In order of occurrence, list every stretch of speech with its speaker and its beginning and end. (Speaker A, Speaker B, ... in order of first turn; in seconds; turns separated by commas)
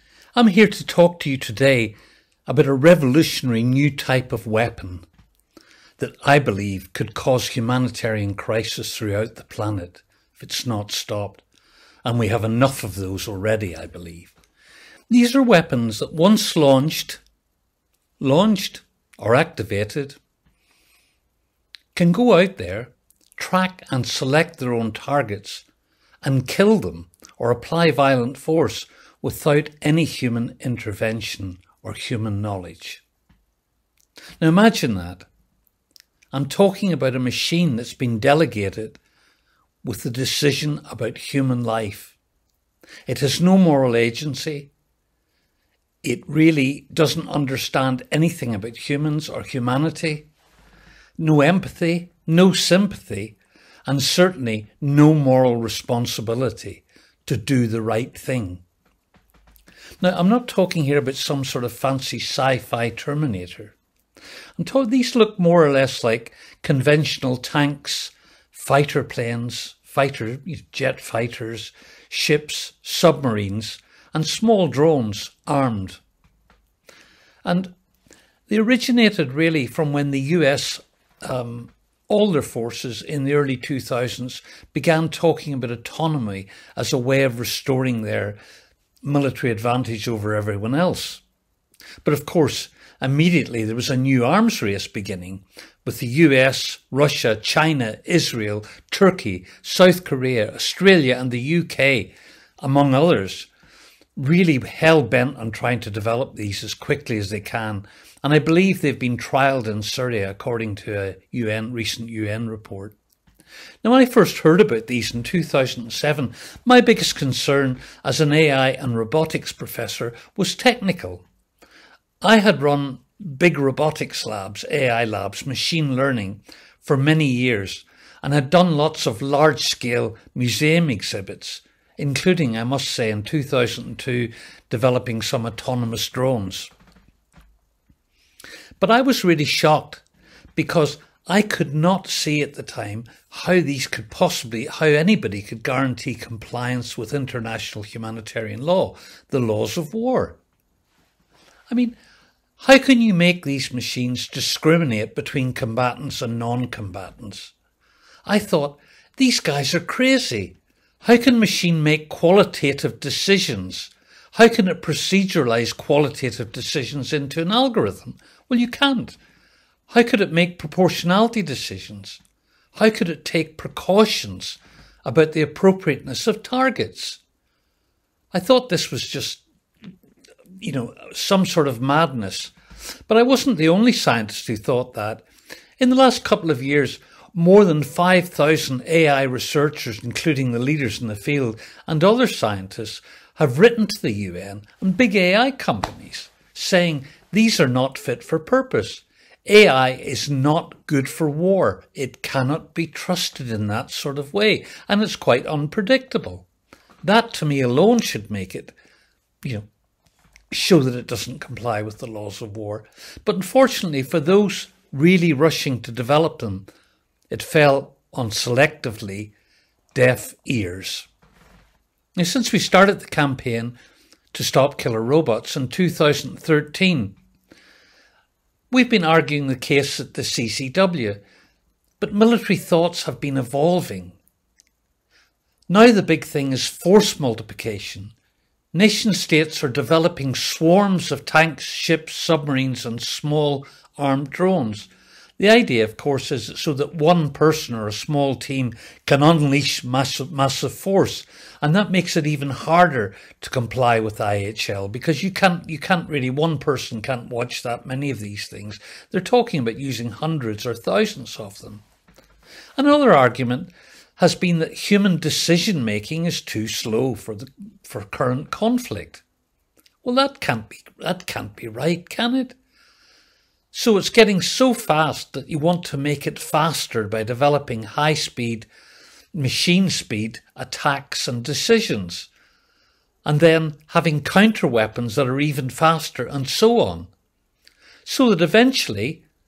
Speaker A: 0.3-1.9, Speaker A: 2.5-5.1, Speaker A: 6.0-11.4, Speaker A: 12.0-14.3, Speaker A: 15.1-17.2, Speaker A: 18.2-20.2, Speaker A: 21.9-25.6, Speaker A: 26.2-33.0, Speaker A: 34.4-35.3, Speaker A: 36.3-39.0, Speaker A: 39.8-42.2, Speaker A: 43.1-44.7, Speaker A: 46.0-50.3, Speaker A: 51.2-58.6, Speaker A: 60.0-63.8, Speaker A: 64.6-76.0, Speaker A: 77.5-77.7, Speaker A: 78.5-88.4, Speaker A: 89.0-91.2, Speaker A: 92.0-103.5, Speaker A: 104.2-113.0, Speaker A: 113.8-121.2, Speaker A: 122.2-136.7, Speaker A: 138.8-140.0, Speaker A: 140.6-150.4, Speaker A: 151.7-152.0, Speaker A: 152.6-157.5, Speaker A: 158.3-169.2, Speaker A: 169.9-172.2, Speaker A: 172.7-177.2, Speaker A: 178.3-179.4, Speaker A: 180.6-182.5, Speaker A: 183.1-185.2, Speaker A: 185.8-206.5, Speaker A: 207.0-208.8, Speaker A: 210.5-216.7, Speaker A: 217.3-219.3, Speaker A: 219.9-221.1, Speaker A: 222.2-223.8, Speaker A: 224.3-227.2, Speaker A: 228.7-231.2, Speaker A: 232.0-234.2, Speaker A: 235.7-238.1, Speaker A: 238.7-261.8, Speaker A: 262.8-269.2, Speaker A: 270.0-272.6, Speaker A: 273.7-278.7, Speaker A: 279.3-282.3, Speaker A: 283.2-287.1, Speaker A: 288.1-289.2